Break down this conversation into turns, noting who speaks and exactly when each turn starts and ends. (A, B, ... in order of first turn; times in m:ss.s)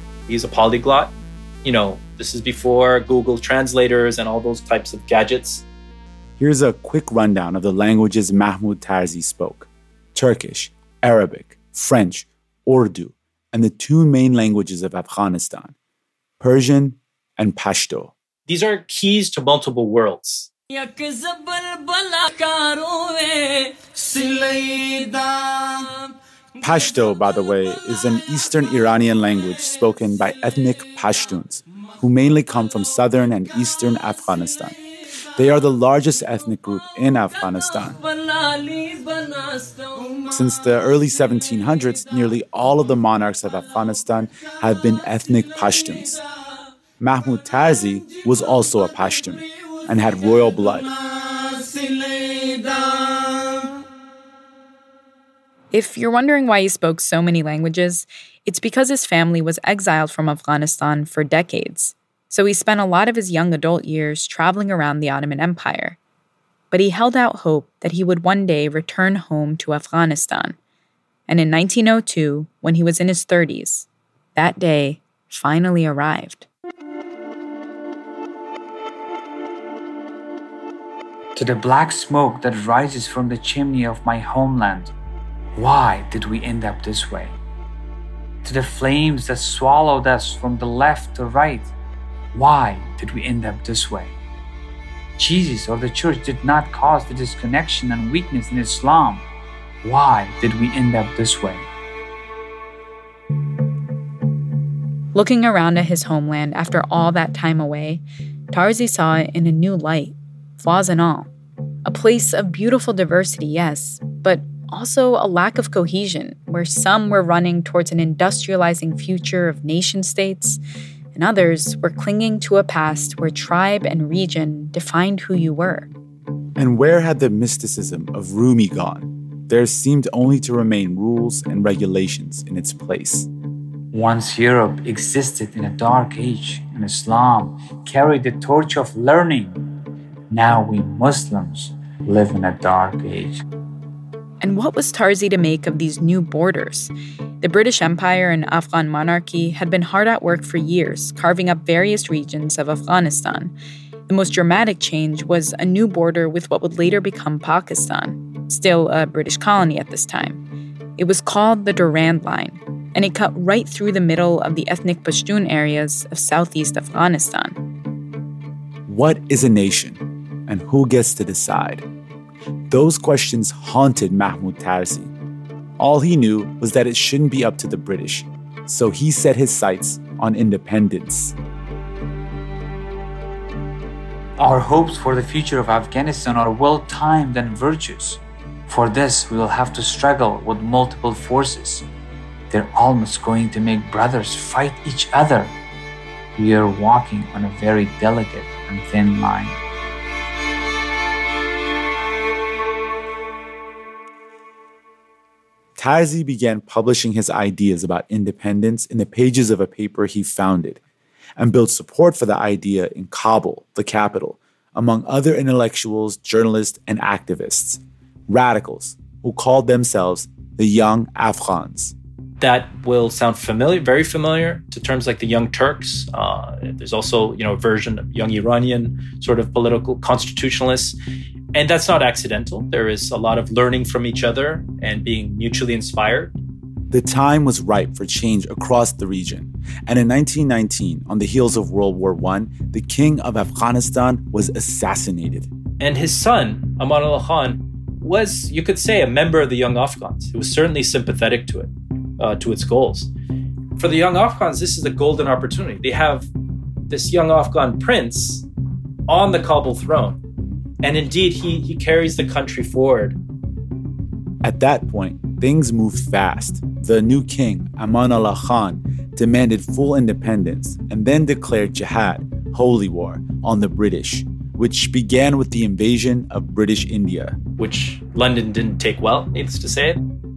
0:00.3-0:05.6 A
0:06.4-0:15.7 B
0:16.4-0:18.1 B
0:18.5-0:20.5 A
0:26.6-0:34.8 B
0:35.4-0:38.0 B
0:40.3-0:46.2 B
0:47.0-0:50.9 B
0:55.7-1:06.0 C
1:06.7-1:10.6 C
1:11.3-1:16.5 C
1:21.3-1:24.9 D
1:25.5-1:27.3 D
1:28.4-1:31.7 D
1:32.3-1:34.1 D
1:35.2-1:39.2 D
1:39.8-1:41.6 D
1:45.1-1:51.3 C
1:51.8-2:00.6 C
2:01.1-2:05.9 C
2:06.6-2:13.3 B
2:13.9-2:19.6 D
2:20.3-2:23.4 D
2:24.4-2:33.5 C
2:34.1-2:40.4 C
2:41.0-2:47.6 C
2:48.8-2:51.8 B
2:52.7-2:55.1 B
2:55.8-3:01.3 B
3:04.4-3:11.8 D
3:12.5-3:15.5 D
3:16.4-3:19.6 D
3:25.8-3:30.8 B
3:31.4-3:41.9 B
3:42.4-3:51.0 A
3:51.5-3:56.3 A
3:56.9-4:05.5 B
4:05.8-4:13.1 A
4:13.8-4:16.3 A
4:16.9-4:18.4 A
4:19.1-4:20.2 A
4:20.8-4:23.2 A
4:24.4-4:37.4 B
4:37.6-4:40.0 A